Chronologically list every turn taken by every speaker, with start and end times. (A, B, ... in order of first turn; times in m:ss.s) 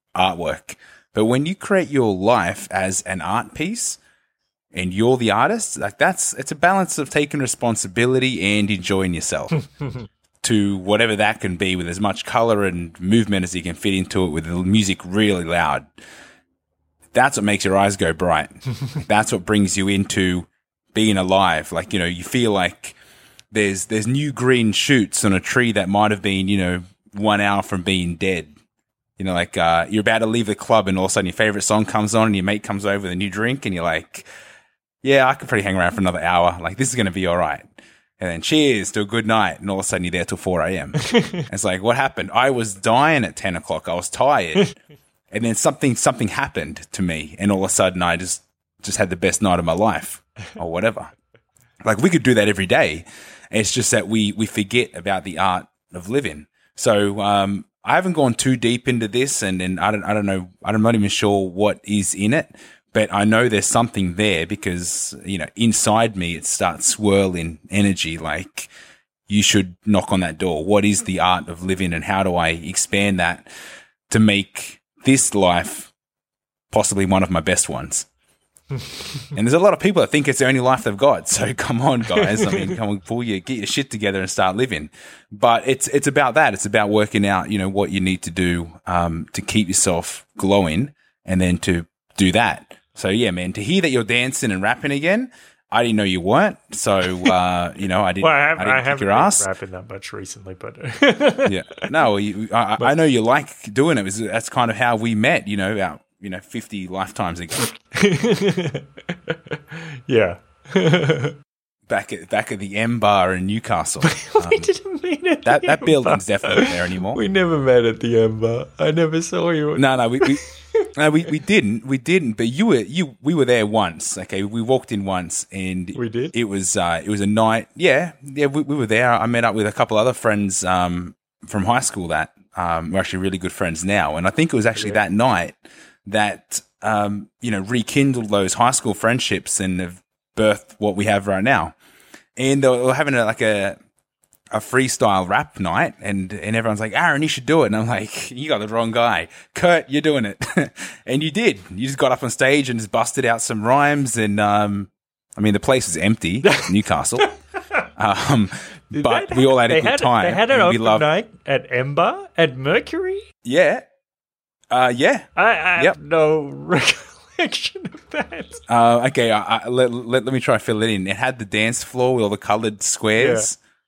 0:00.2-0:04.0 A
0:04.7-0:09.6 A
0:10.4-0:15.9 A
0:17.1-0:23.0 A
0:23.5-0:28.5 A
0:29.2-0:34.3 A
0:35.0-0:37.7 A
0:38.2-0:44.8 A
0:41.1-0:41.4 B
0:45.3-0:51.1 A
0:51.8-1:08.7 A
1:09.3-1:13.5 A
1:14.1-1:15.9 A
1:16.7-1:18.1 A
1:18.8-1:19.2 B
1:19.3-1:39.5 A
1:22.2-1:22.8 B
1:38.2-1:41.9 B
1:41.5-1:47.7 A
1:47.6-1:51.4 B
1:51.9-1:54.7 A
1:54.0-2:00.9 B
1:55.4-1:57.2 A
1:59.8-2:21.8 A
2:06.0-2:06.3 B
2:22.4-2:23.8 A
2:24.5-2:37.3 A
2:36.4-2:37.8 B
2:38.0-2:41.1 A
2:38.9-2:43.2 B
2:43.4-2:43.9 A
2:44.7-2:46.0 A
2:45.4-2:48.6 B
2:48.7-2:53.6 A
2:53.2-2:53.5 B